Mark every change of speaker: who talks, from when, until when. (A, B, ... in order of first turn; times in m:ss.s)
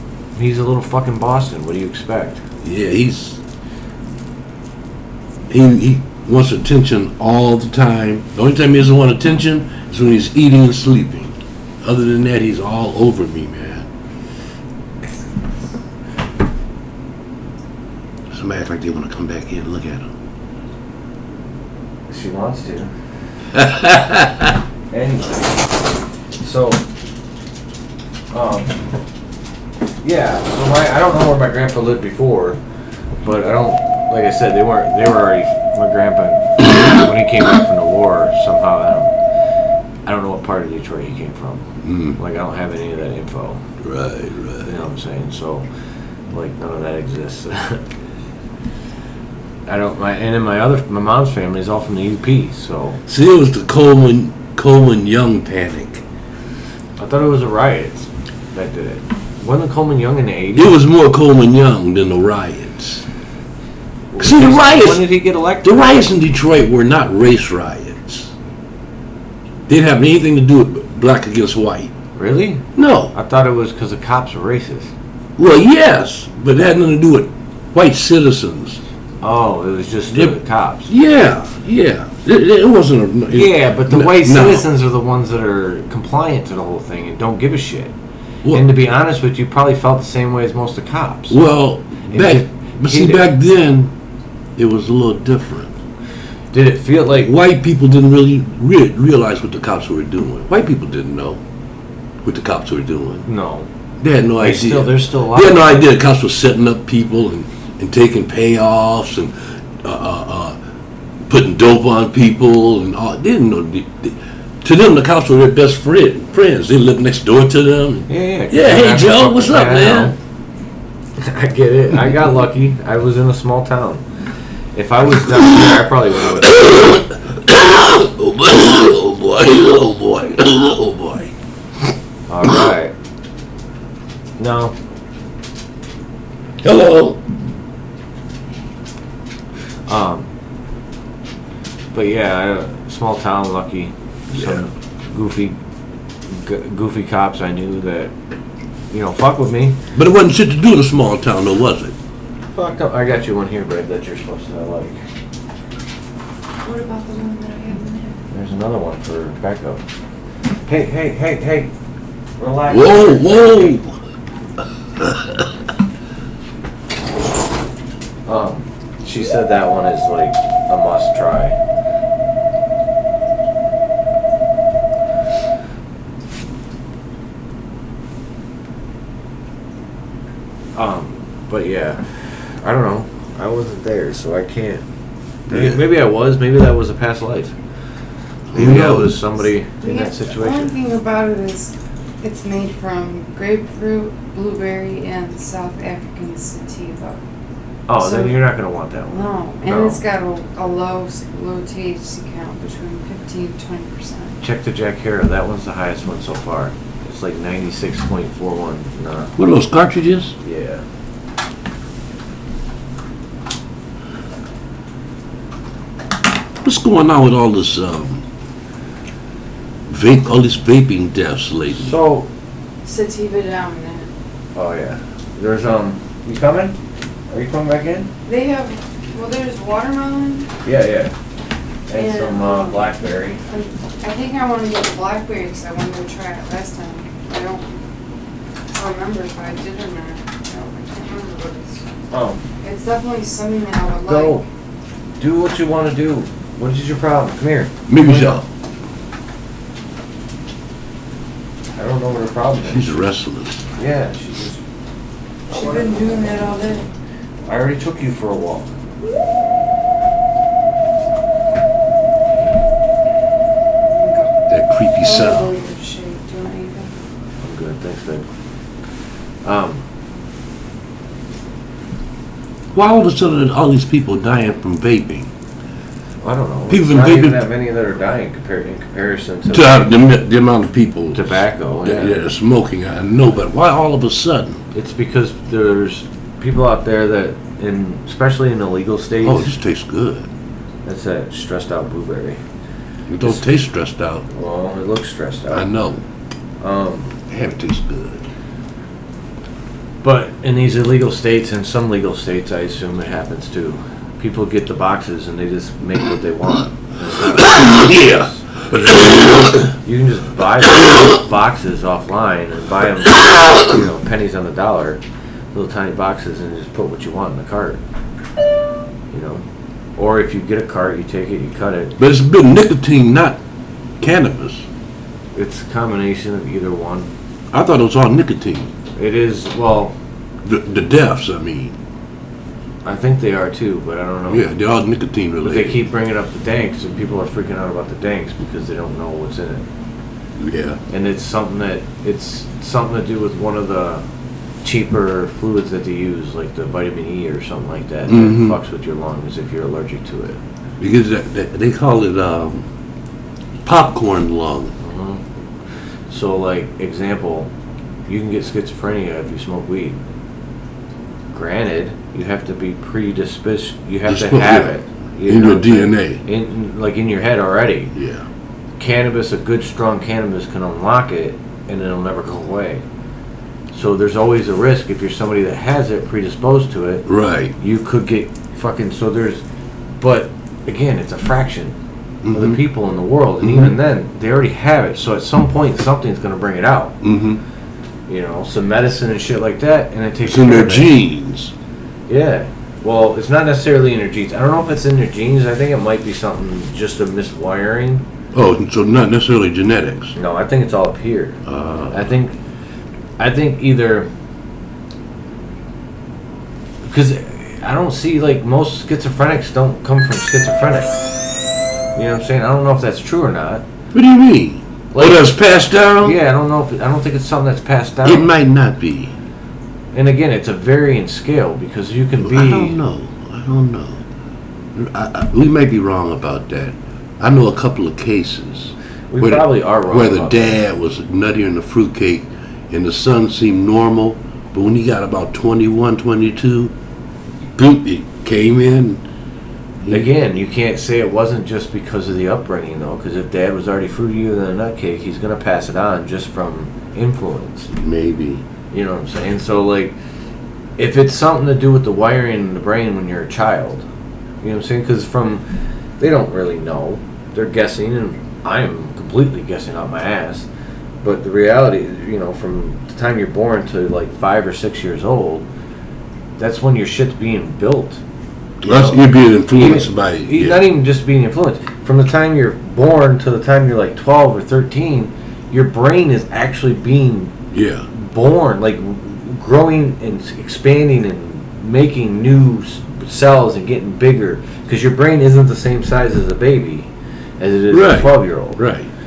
0:00.4-0:02.4 A
0:02.6-0:03.4 B
0:05.5-0:13.9 B
0:18.3-0:20.1 B
0:22.1-0:22.9 A
0:23.6-0:24.5 B
0:24.9-0:25.6 A
0:26.4-0:26.8 A
0:28.3-0:28.8 A
0:30.0-0:32.6 A
0:33.2-0:39.2 A
0:40.1-0:43.6 A
0:41.8-0:42.2 B
0:43.8-0:44.7 B
0:44.6-0:45.7 A
0:46.3-0:47.8 A
0:49.7-0:53.0 A
0:53.1-0:56.0 B
0:57.0-1:00.8 A
1:00.6-1:03.1 B
1:04.1-1:06.1 A
1:04.2-1:08.3 B
1:09.7-1:11.9 B
1:12.2-1:14.9 A
1:12.8-1:13.1 B
1:15.4-1:18.8 B
1:19.2-1:20.9 A
1:20.1-1:24.7 B
1:23.3-1:27.9 A
1:28.5-1:31.4 A
1:31.3-1:33.9 B
1:32.1-1:33.3 A
1:34.6-1:35.8 B
1:36.5-1:37.3 A
1:37.2-1:41.4 B
1:42.2-1:43.3 B
1:43.3-1:43.7 A
1:44.0-1:50.6 B
1:44.4-1:45.8 A
1:51.3-2:00.2 B
1:58.1-2:00.2 A
2:01.2-2:04.0 A
2:04.8-2:07.0 A
2:06.4-2:11.3 B
2:12.3-2:12.9 A
2:14.4-2:14.7 A
2:16.6-2:17.2 B
2:19.9-2:20.3 A
2:21.9-2:25.6 A
2:26.3-2:28.1 A
2:28.9-2:29.8 A
2:30.0-2:32.0 B
2:32.6-2:35.0 A
2:36.6-2:38.2 C
2:38.3-2:39.8 A
2:40.7-2:41.7 A
2:42.4-2:43.8 A
2:42.7-2:44.0 B
2:45.0-2:45.4 B
2:48.3-2:51.6 A
3:00.8-3:04.8 A
3:05.5-3:07.5 A
3:05.5-3:05.8 B
3:08.5-3:09.2 B
3:08.5-3:10.8 A
3:09.8-3:17.2 C
3:17.9-3:20.0 A
3:18.0-3:18.4 C
3:19.1-3:24.4 C
3:24.4-3:29.4 A
3:29.4-3:30.4 B
3:30.4-3:30.8 A
3:36.6-3:38.2 B
3:39.9-3:41.9 B
3:41.7-3:42.3 A
3:42.8-3:44.1 C
3:44.6-3:46.8 A
3:47.3-3:48.1 A
3:48.3-3:50.5 C
3:50.6-3:51.1 A
3:51.9-3:53.4 A
3:51.9-3:52.9 C
3:53.5-3:57.7 C
3:58.7-4:01.8 C
4:02.1-4:02.4 A
4:02.6-4:04.4 C
4:04.0-4:04.4 A
4:05.2-4:08.4 A
4:07.9-4:08.5 B
4:11.8-4:12.9 A
4:12.7-4:13.6 B
4:13.8-4:14.6 A
4:15.5-4:16.9 C
4:15.5-4:15.8 A
4:17.5-4:18.7 A
4:23.9-4:24.3 C
4:24.5-4:25.6 B
4:25.0-4:26.9 C
4:27.4-4:28.3 A
4:29.4-4:29.8 A
4:32.7-4:35.3 B
4:36.2-4:39.9 A
4:36.7-4:37.5 B
4:39.5-4:44.6 B
4:41.1-4:42.2 A
4:44.7-4:49.5 A
4:49.2-4:50.3 B
4:50.8-4:52.4 A
4:53.1-4:54.3 B
4:54.3-4:55.7 A
4:55.5-4:56.0 B
4:56.6-4:57.2 A
4:57.3-4:58.3 B
5:00.0-5:15.0 A
5:07.3-5:09.7 B
5:15.5-5:17.8 A
5:19.1-5:19.4 A
5:20.0-5:22.0 A
5:22.0-5:23.4 B
5:24.0-5:24.7 B
5:25.4-5:27.1 A
5:27.5-5:28.7 B
5:29.0-5:29.9 A
5:30.4-5:31.8 B
5:32.8-5:34.4 A
5:34.3-5:35.8 B
5:35.4-5:39.7 A
5:40.4-5:40.8 B
5:40.9-5:44.0 A
5:44.6-5:50.4 A
5:48.1-5:48.6 B
5:50.8-5:52.7 B
5:53.6-5:54.8 B
5:54.8-5:55.2 A
5:56.1-5:57.5 A
5:58.1-6:00.0 A
6:01.3-6:07.9 A
6:04.1-6:04.8 B
6:05.3-6:06.2 B
6:08.0-6:08.3 B
6:08.8-6:12.8 A
6:13.7-6:17.1 A
6:17.1-6:17.6 B
6:17.6-6:19.4 A
6:20.0-6:21.8 A
6:22.2-6:22.6 B
6:22.3-6:27.0 A
6:23.4-6:23.7 B
6:27.0-6:27.4 B
6:28.1-6:30.9 A
6:30.2-6:31.5 B
6:32.1-6:38.0 A
6:38.3-6:40.2 B
6:40.2-6:42.4 A
6:41.5-6:42.1 B
6:43.2-6:44.1 A
6:46.8-6:51.2 A
6:52.0-6:53.6 A
6:53.9-6:56.2 B
6:54.9-6:55.4 A
6:56.0-6:58.3 A
6:58.0-6:59.1 B
6:59.9-7:02.8 A
7:02.2-7:04.0 B
7:04.8-7:16.7 B
7:09.1-7:10.6 A
7:17.6-7:19.0 B
7:19.8-7:20.1 B
7:19.9-7:27.7 A
7:27.7-7:28.4 B
7:28.7-7:29.9 A
7:30.8-7:33.8 A
7:34.4-7:35.4 A
7:36.0-7:40.5 A
7:41.0-7:45.5 A
7:46.4-7:48.0 A
7:48.6-7:50.6 B
7:48.7-7:57.4 A
7:57.5-7:57.9 B
7:57.9-8:08.6 A
8:07.7-8:08.9 B